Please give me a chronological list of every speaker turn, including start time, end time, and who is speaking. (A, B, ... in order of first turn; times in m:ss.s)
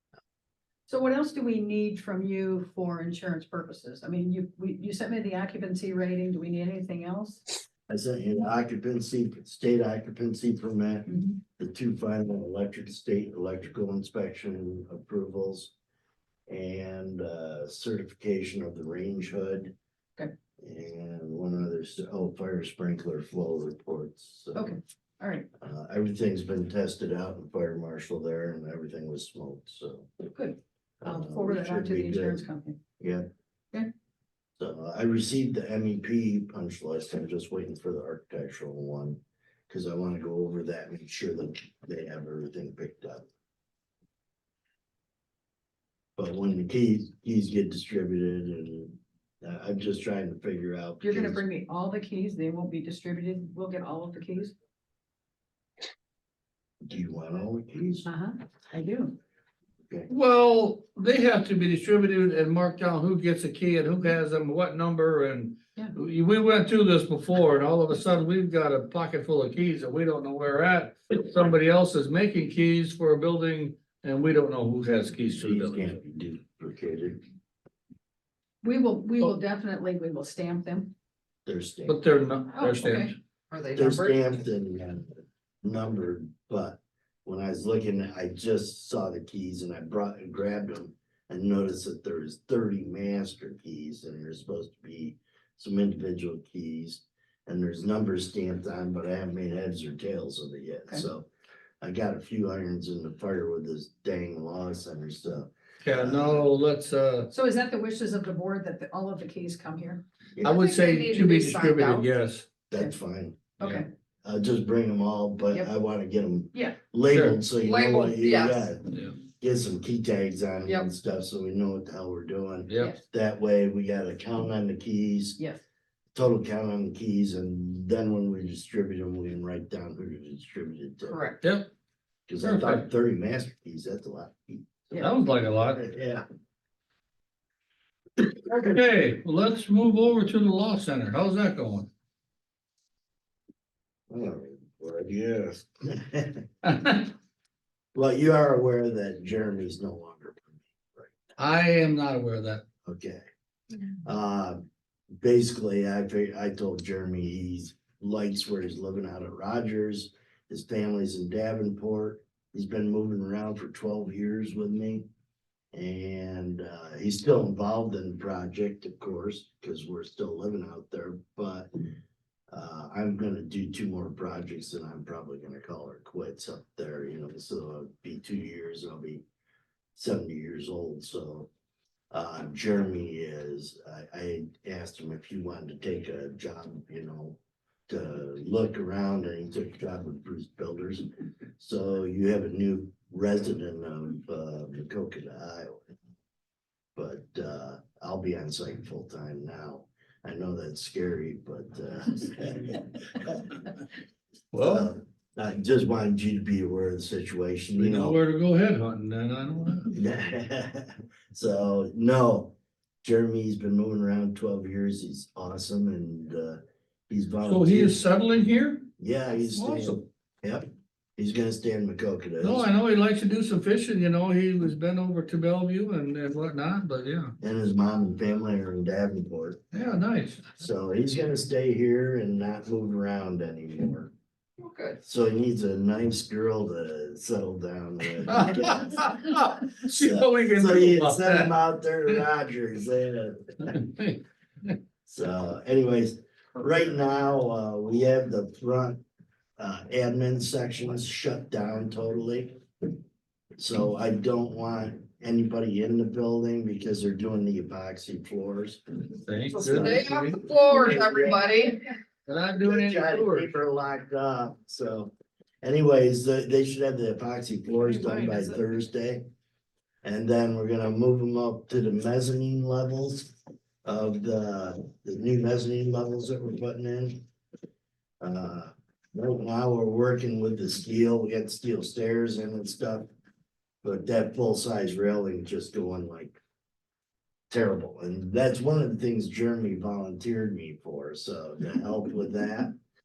0:00.9-0:07.5 A
0:07.9-0:15.7 B
0:16.5-0:19.7 B
0:20.6-0:24.8 B
0:24.6-0:25.5 A
0:25.6-0:30.1 B
0:30.3-0:32.8 A
0:31.0-0:32.4 B
0:33.0-0:33.3 B
0:34.6-0:43.3 B
0:46.2-0:51.4 B
0:51.0-0:54.5 A
0:56.8-0:58.1 B
0:58.0-0:59.2 A
1:00.1-1:16.0 C
1:15.3-1:17.2 B
1:18.6-1:20.9 A
1:21.5-1:22.0 B
1:21.9-1:23.2 C
1:22.5-1:23.1 A
1:23.5-1:24.3 D
1:23.7-1:41.3 B
1:41.8-1:46.5 B
1:45.8-1:47.3 C
1:47.3-1:50.0 A
1:50.4-1:52.5 C
1:50.4-1:52.1 D
1:52.7-1:53.6 B
1:53.6-1:53.9 A
1:54.2-2:05.4 B
1:55.5-1:55.8 A
1:57.1-1:57.4 C
1:57.6-1:58.7 D
2:02.7-2:03.0 C
2:06.2-2:11.2 B
2:11.0-2:11.4 A
2:11.4-2:11.7 C
2:12.3-2:14.9 B
2:12.4-2:12.8 C
2:15.0-2:15.8 C
2:15.7-2:16.2 B
2:18.5-2:21.9 C
2:24.1-2:26.5 B
2:26.6-2:27.1 C
2:28.0-2:31.2 B
2:31.4-2:32.6 C
2:32.9-2:33.3 B
2:34.0-2:34.6 B
2:35.2-2:45.1 B
2:45.7-2:51.7 B
2:52.5-2:59.2 B
3:00.0-3:01.5 B
3:02.1-3:11.1 B
3:11.6-3:15.8 B
3:17.0-3:23.7 B
3:24.5-3:24.9 C
3:24.6-3:28.2 B
3:27.8-3:29.9 C
3:29.9-3:38.0 B
3:37.4-3:38.9 C
3:39.0-3:40.7 B
3:39.5-3:40.0 C
3:41.2-3:42.7 B
3:42.4-3:47.4 C
3:47.4-3:49.6 B
3:49.7-3:50.6 C
3:50.6-3:54.1 B
3:54.6-3:55.0 A
3:55.0-4:03.8 B
3:58.3-4:01.5 C
4:03.6-4:04.8 C
4:05.1-4:09.0 B
4:09.6-4:12.6 B
4:13.6-4:18.8 B
4:19.2-4:20.4 C
4:19.5-4:21.8 D
4:19.6-4:21.6 B
4:22.3-4:23.5 C
4:22.5-4:25.1 B
4:25.6-4:29.2 B
4:27.8-4:28.6 C
4:30.0-4:33.3 B
4:33.8-4:37.2 B
4:38.2-4:43.1 B
4:43.8-4:46.4 B
4:47.5-4:52.7 B